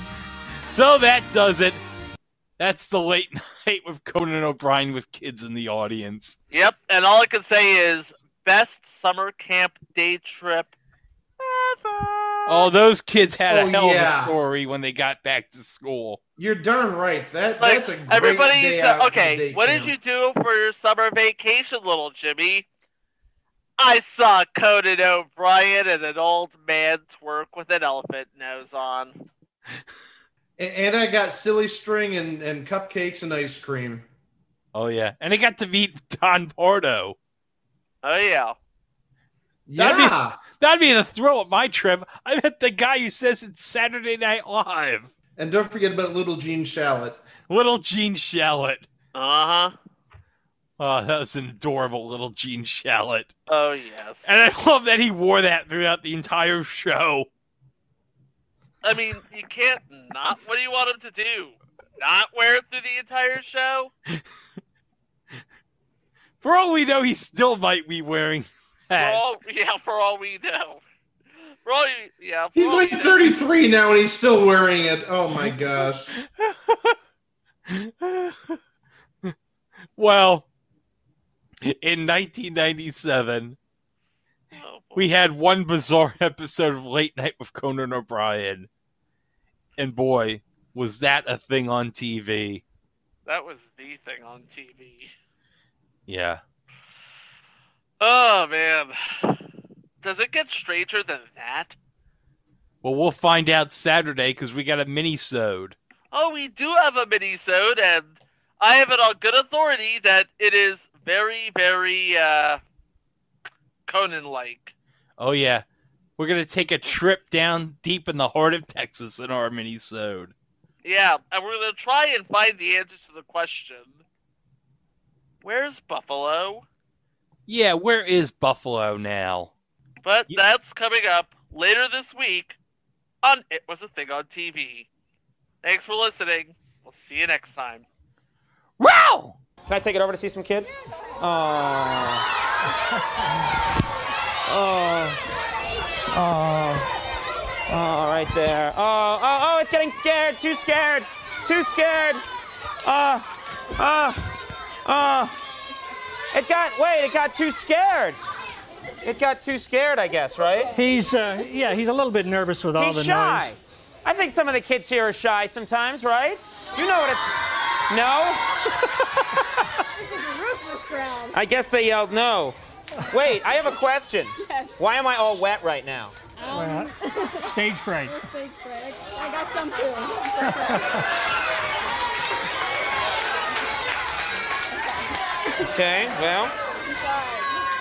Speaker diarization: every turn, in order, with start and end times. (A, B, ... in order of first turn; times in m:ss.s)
0:00.7-0:01.8 A
0:02.6-0:06.4 A
0:06.5-0:10.7 B
0:11.4-0:12.7 B
0:12.4-0:16.2 A
0:13.5-0:14.3 C
0:16.4-0:19.9 C
0:17.6-0:22.6 B
0:23.8-0:29.2 B
0:30.6-0:34.0 C
0:34.7-0:37.2 A
0:38.0-0:38.6 B
0:39.7-0:40.4 C
0:39.8-0:45.1 A
0:45.4-0:47.2 C
0:47.5-0:48.8 A
0:49.1-0:49.7 B
0:50.8-0:53.3 A
0:53.5-0:54.4 B
0:54.2-0:57.3 A
0:58.8-1:03.9 B
1:06.4-1:09.2 A
1:09.0-1:10.8 B
1:11.6-1:13.2 B
1:12.5-1:16.1 C
1:15.4-1:17.0 A
1:17.7-1:18.6 A
1:20.0-1:20.4 A
1:21.6-1:23.6 A
1:24.5-1:25.1 B
1:25.0-1:28.7 A
1:29.8-1:32.6 A
1:33.3-1:35.1 B
1:36.1-1:36.4 A
1:38.0-1:39.4 B
1:40.0-1:41.8 B
1:42.8-1:45.8 A
1:46.1-1:52.6 B
1:53.9-1:54.7 B
1:55.2-1:55.6 A
1:56.2-2:00.3 A
2:00.8-2:04.0 B
2:05.4-2:06.6 B
2:07.5-2:09.5 A
2:10.0-2:12.6 B
2:13.2-2:14.9 B
2:15.6-2:17.8 B
2:18.8-2:19.4 A
2:19.7-2:22.2 D
2:24.5-2:25.2 D
2:26.1-2:26.9 D
2:27.7-2:32.2 D
2:32.8-2:33.3 D
2:33.8-2:34.3 D
2:34.8-2:35.4 D
2:36.3-2:38.2 D
2:39.0-2:40.8 D
2:40.7-2:43.5 E
2:42.8-2:47.3 D
2:47.9-2:48.4 D
2:49.9-2:51.3 F
2:51.3-2:52.6 D
2:53.1-2:56.1 D
2:54.4-2:54.7 F
2:56.4-3:01.0 F
2:56.5-2:58.2 E
3:00.4-3:01.0 E
3:05.6-3:06.5 D
3:06.8-3:07.5 F